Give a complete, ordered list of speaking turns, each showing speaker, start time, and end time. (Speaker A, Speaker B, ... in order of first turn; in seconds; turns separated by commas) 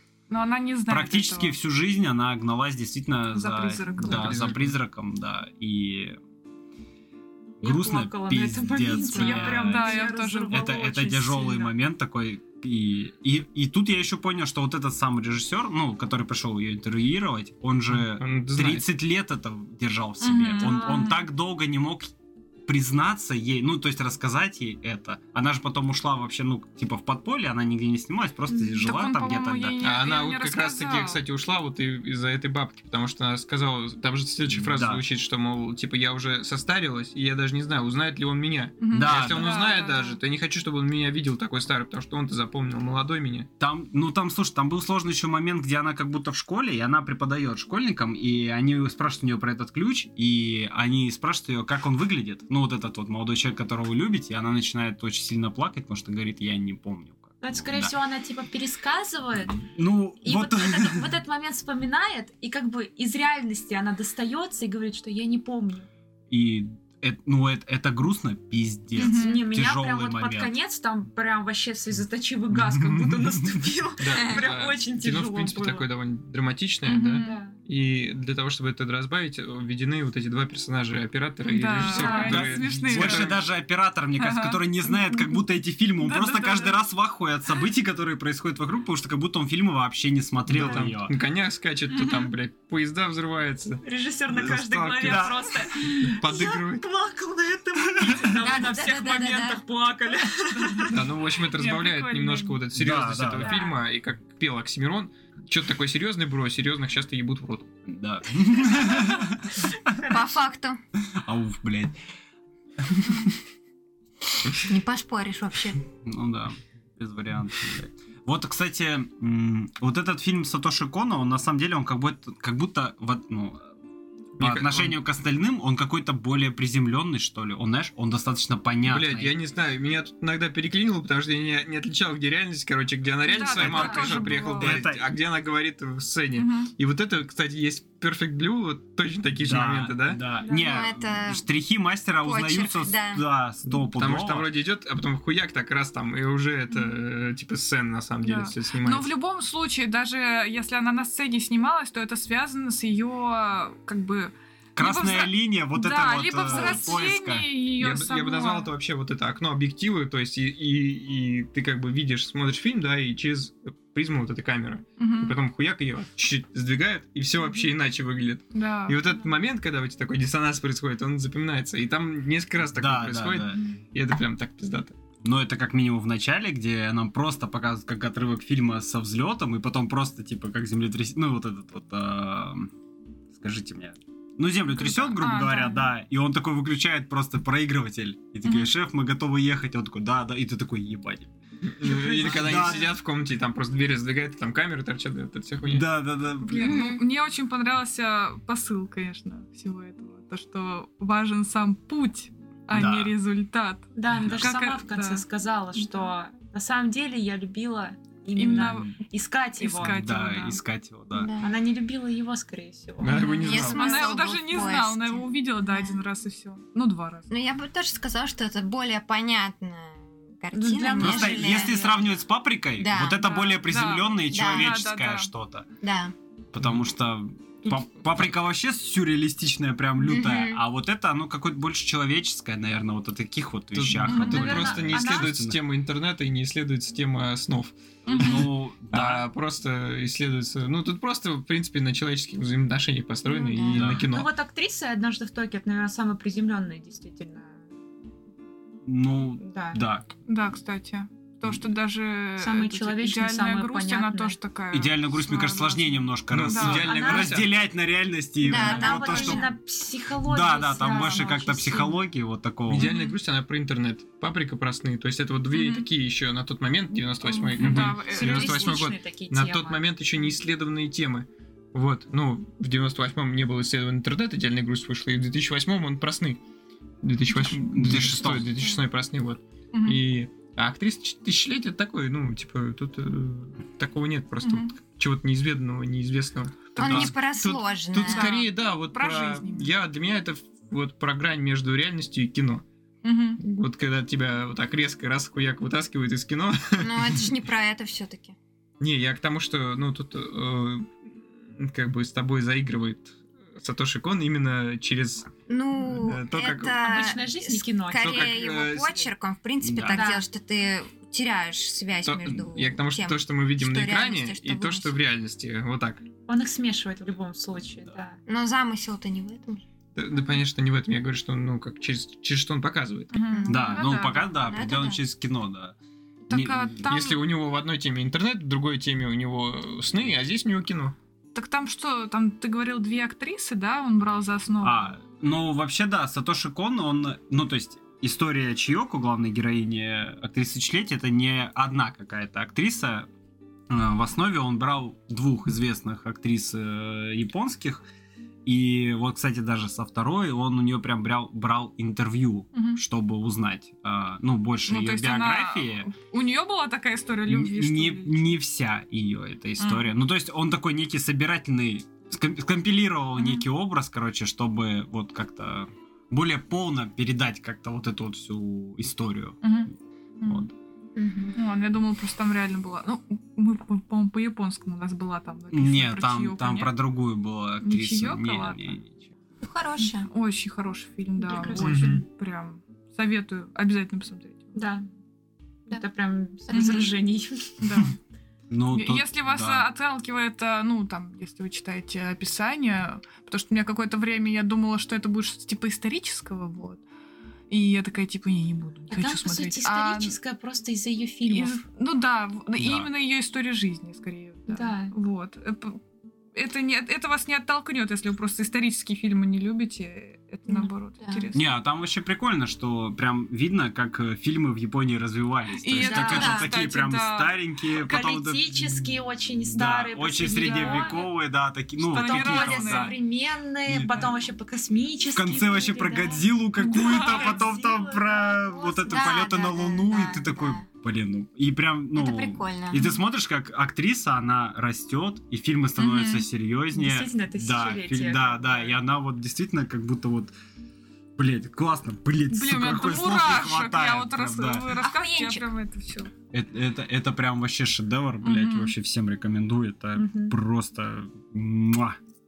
Speaker A: 0.3-1.6, Speaker B: 0.9-6.2, Speaker A: 3.3-4.5, Speaker C: 4.0-4.8, Speaker B: 7.6-22.1, Speaker D: 7.6-11.0, Speaker A: 9.0-11.7, Speaker C: 17.9-18.8, Speaker A: 20.2-21.2, Speaker B: 22.6-29.8, Speaker A: 28.8-31.2, Speaker C: 29.8-43.5, Speaker B: 34.7-35.0, Speaker A: 38.8-40.2, Speaker B: 38.9-39.5, Speaker B: 43.6-57.9, Speaker D: 57.4-59.7, Speaker B: 59.6-61.1, Speaker D: 60.2-65.9, Speaker B: 66.3-70.5, Speaker A: 69.0-69.4, Speaker D: 69.0-75.9, Speaker C: 72.5-83.4, Speaker A: 76.8-77.3, Speaker D: 77.2-77.6, Speaker A: 81.4-83.4, Speaker D: 81.8-82.6, Speaker B: 82.2-91.2, Speaker A: 84.2-85.2, Speaker A: 86.0-86.8, Speaker C: 90.5-95.4, Speaker A: 91.9-92.3, Speaker D: 93.8-101.2, Speaker B: 95.0-95.5, Speaker C: 96.0-96.8, Speaker B: 97.9-98.3, Speaker E: 98.4-99.6, Speaker C: 100.9-107.7, Speaker A: 101.5-102.6, Speaker B: 102.8-103.6, Speaker D: 103.4-103.7, Speaker B: 107.9-110.2, Speaker D: 109.9-110.3, Speaker E: 110.1-110.8, Speaker B: 111.0-112.0, Speaker E: 114.6-115.8, Speaker B: 116.0-123.7, Speaker C: 124.4-124.9, Speaker B: 124.4-129.3, Speaker C: 128.8-140.2, Speaker A: 133.2-134.8, Speaker B: 133.5-135.1, Speaker A: 136.3-136.7, Speaker B: 139.4-144.5, Speaker D: 140.4-140.8, Speaker E: 140.5-141.4, Speaker E: 142.2-143.2, Speaker C: 143.7-149.1, Speaker A: 148.2-158.7, Speaker B: 154.8-157.5, Speaker C: 157.8-174.9, Speaker A: 165.0-165.4, Speaker A: 168.5-169.0, Speaker B: 172.8-173.6, Speaker B: 175.2-182.7, Speaker B: 183.3-191.3, Speaker A: 184.8-185.9, Speaker C: 191.7-195.8, Speaker B: 191.8-192.9, Speaker A: 191.9-192.9, Speaker B: 195.6-196.8, Speaker A: 196.4-205.2, Speaker E: 196.6-197.0, Speaker B: 202.7-203.1, Speaker D: 203.9-210.1, Speaker B: 204.2-204.5, Speaker A: 208.3-209.0, Speaker B: 208.5-208.9, Speaker A: 209.6-210.6, Speaker B: 209.8-211.3, Speaker E: 211.1-211.5, Speaker D: 211.4-213.7, Speaker C: 213.0-214.0, Speaker E: 213.1-216.0, Speaker A: 213.4-217.3, Speaker E: 217.3-222.2, Speaker D: 220.5-222.1, Speaker B: 221.0-225.7, Speaker E: 222.8-223.3, Speaker A: 223.2-225.3, Speaker E: 224.3-224.7, Speaker E: 225.8-226.1, Speaker B: 226.5-235.6, Speaker C: 226.6-226.8, Speaker E: 230.0-230.6, Speaker C: 233.7-244.3, Speaker D: 234.1-235.4, Speaker A: 238.1-238.4, Speaker B: 238.1-239.2, Speaker A: 243.3-243.7, Speaker D: 243.7-247.6, Speaker B: 243.7-244.0, Speaker B: 248.8-250.1, Speaker D: 249.4-249.8, Speaker A: 250.3-257.1, Speaker D: 252.4-254.4, Speaker B: 254.7-259.5, Speaker C: 256.3-257.5, Speaker D: 256.7-257.4, Speaker E: 258.4-259.5, Speaker D: 258.5-262.0, Speaker B: 260.2-262.9, Speaker C: 262.6-276.4, Speaker A: 262.8-263.1, Speaker A: 265.5-265.9, Speaker A: 267.2-268.8, Speaker B: 267.6-268.0, Speaker D: 268.1-269.9, Speaker C: 277.0-292.6, Speaker B: 277.4-278.5, Speaker A: 279.7-280.0, Speaker A: 284.4-284.7, Speaker A: 286.8-287.1, Speaker E: 286.8-288.3, Speaker B: 286.8-287.1, Speaker A: 288.0-289.7, Speaker A: 293.0-293.4, Speaker C: 293.4-297.3, Speaker E: 296.8-298.3, Speaker C: 298.8-301.0, Speaker C: 301.6-305.3, Speaker E: 305.5-315.0, Speaker C: 305.8-306.8, Speaker D: 306.8-308.4, Speaker C: 308.0-309.1, Speaker B: 309.6-310.0, Speaker D: 309.9-310.2, Speaker C: 312.0-316.1, Speaker D: 316.3-318.2, Speaker E: 318.3-319.6, Speaker C: 319.9-323.1, Speaker A: 323.1-324.3, Speaker E: 323.2-325.0, Speaker B: 323.4-325.8, Speaker A: 326.3-327.2, Speaker B: 326.3-326.9, Speaker C: 326.9-330.9, Speaker A: 331.3-334.9, Speaker B: 334.6-343.1, Speaker B: 343.7-347.8, Speaker B: 348.4-355.9, Speaker A: 352.5-352.8, Speaker A: 354.7-358.4, Speaker B: 357.3-369.5, Speaker A: 359.6-359.9, Speaker A: 363.2-363.4, Speaker A: 369.4-369.7, Speaker A: 370.2-370.5, Speaker E: 370.9-371.4, Speaker A: 371.4-376.7, Speaker B: 375.5-378.9, Speaker A: 377.6-378.8, Speaker E: 379.4-380.1, Speaker A: 380.0-384.6, Speaker D: 381.2-382.0, Speaker C: 381.6-382.0, Speaker D: 384.5-384.9, Speaker D: 385.7-387.6, Speaker E: 386.5-386.8, Speaker A: 386.5-386.8, Speaker A: 387.6-388.0, Speaker B: 388.5-389.7, Speaker A: 388.7-396.8, Speaker A: 397.5-400.1, Speaker D: 398.9-401.6, Speaker A: 401.3-405.8, Speaker B: 402.6-402.9, Speaker D: 404.5-404.9, Speaker A: 406.3-411.4, Speaker B: 411.3-418.5, Speaker A: 415.6-417.4, Speaker E: 415.8-416.5, Speaker D: 415.9-416.2, Speaker D: 417.7-421.0, Speaker B: 419.5-423.0, Speaker A: 420.2-421.0, Speaker A: 421.8-423.0, Speaker D: 421.9-429.1, Speaker B: 423.7-424.0, Speaker C: 423.8-424.1, Speaker B: 425.1-440.3, Speaker A: 426.6-427.5, Speaker E: 428.9-430.6, Speaker E: 431.9-432.9, Speaker A: 435.8-436.3, Speaker D: 436.7-438.8, Speaker B: 441.1-444.7, Speaker A: 442.3-446.1, Speaker E: 444.8-445.4, Speaker B: 446.3-452.0, Speaker A: 448.2-448.7, Speaker D: 449.9-450.3